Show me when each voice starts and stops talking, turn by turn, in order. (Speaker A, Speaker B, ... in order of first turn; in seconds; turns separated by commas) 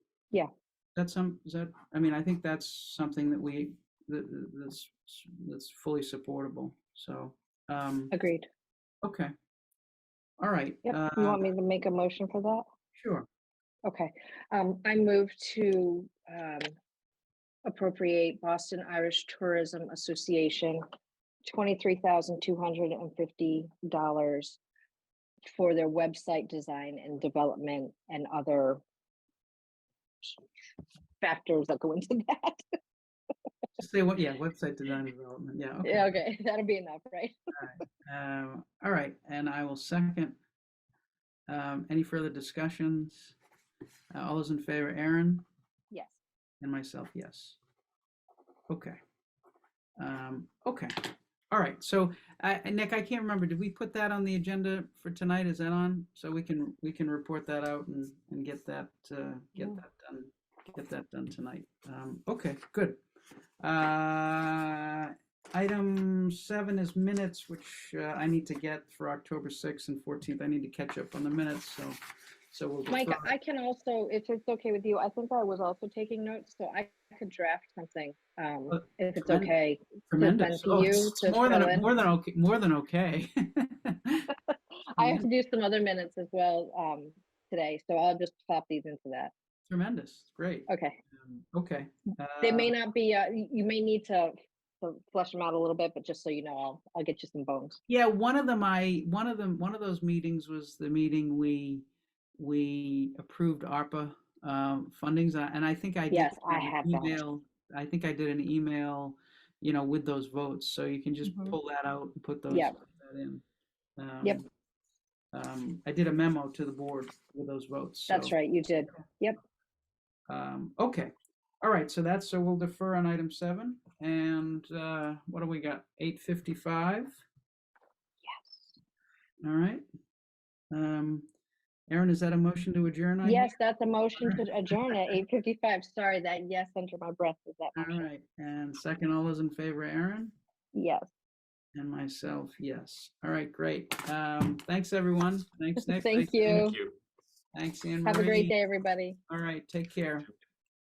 Speaker A: 0.9-8.1, Speaker B: 8.1-8.4, Speaker A: 9.0-9.3, Speaker A: 10.4-11.4, Speaker B: 10.8-12.6, Speaker A: 12.9-13.2, Speaker B: 13.8-16.7, Speaker B: 17.6-20.8, Speaker B: 21.5-24.6, Speaker B: 25.4-28.8, Speaker B: 31.2-32.6, Speaker A: 33.8-36.2, Speaker B: 35.8-37.4, Speaker A: 37.6-40.3, Speaker A: 41.5-43.4, Speaker A: 44.1-45.4, Speaker B: 45.9-46.2, Speaker A: 46.6-47.6, Speaker A: 48.7-49.0, Speaker A: 50.0-50.9, Speaker A: 51.5-63.0, Speaker A: 63.6-72.0, Speaker A: 72.5-73.3, Speaker B: 72.9-81.8, Speaker A: 78.7-79.5, Speaker A: 80.1-84.3, Speaker B: 85.0-89.3, Speaker A: 85.0-85.2, Speaker A: 89.7-90.7, Speaker B: 90.7-91.0, Speaker A: 91.2-92.7, Speaker B: 92.4-97.8, Speaker A: 97.9-101.8, Speaker A: 102.4-113.4, Speaker B: 106.1-107.2, Speaker B: 111.2-111.6, Speaker B: 112.5-112.8, Speaker A: 114.0-114.4, Speaker A: 115.3-118.3, Speaker B: 118.1-119.4, Speaker A: 120.3-127.1, Speaker B: 128.2-128.8, Speaker A: 129.4-129.8, Speaker A: 130.7-131.3, Speaker A: 131.9-133.5, Speaker B: 133.2-138.1, Speaker A: 134.2-134.9, Speaker A: 137.7-140.3, Speaker B: 140.7-141.1, Speaker A: 141.7-146.8, Speaker B: 145.8-146.8, Speaker A: 147.5-148.6, Speaker B: 148.0-149.2, Speaker A: 149.3-150.3